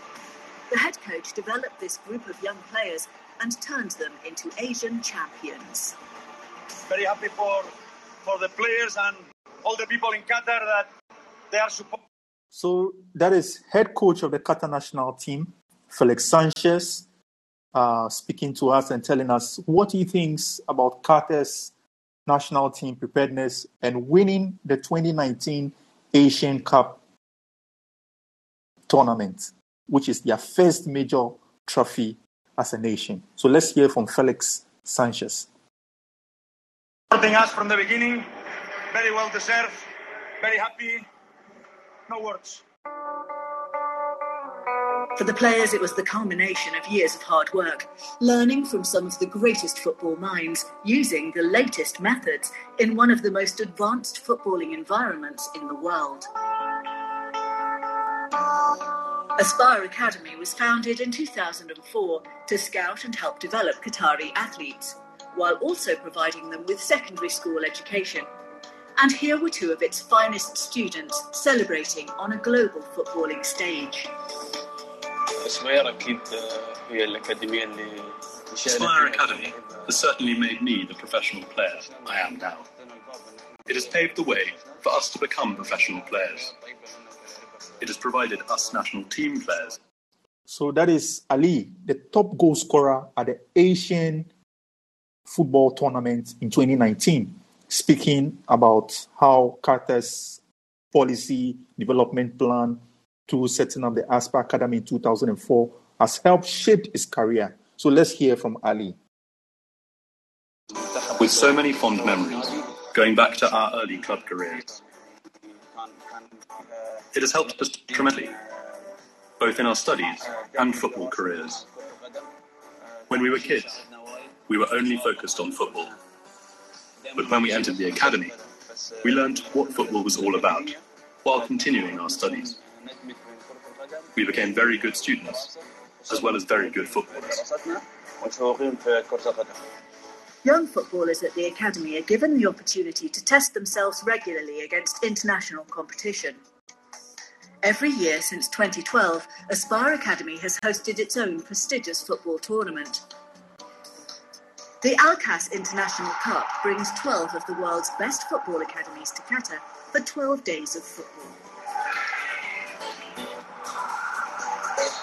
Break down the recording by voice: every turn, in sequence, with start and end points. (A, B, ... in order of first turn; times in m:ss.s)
0:00.7-0:06.0 A
0:06.9-0:07.7 B
0:08.2-0:10.9 B
0:11.5-0:12.0 B
0:12.5-0:17.1 C
0:17.7-0:21.7 C
0:22.3-0:27.0 C
0:28.9-0:35.5 C
0:37.1-0:38.3 B
0:38.9-0:39.8 B
0:40.4-0:41.0 B
0:42.1-0:42.6 B
0:45.2-0:56.3 A
0:59.4-1:08.3 A
1:09.0-1:14.1 A
1:15.4-1:19.3 D
1:18.7-1:22.7 E
1:23.7-1:26.5 E
1:27.8-1:29.8 E
1:30.5-1:34.3 C
1:35.3-1:40.4 C
1:40.9-1:49.0 C
1:51.2-1:54.7 E
1:57.1-1:58.4 E
1:59.4-2:01.6 E
2:03.1-2:03.8 E
2:04.5-2:06.0 E
2:07.2-2:08.4 E
2:09.0-2:12.6 E
2:13.0-2:14.0 D
2:14.1-2:15.5 E
2:16.1-2:17.4 E
2:17.4-2:19.6 D
2:20.4-2:26.4 A
2:27.6-2:33.1 A
2:34.8-2:41.4 A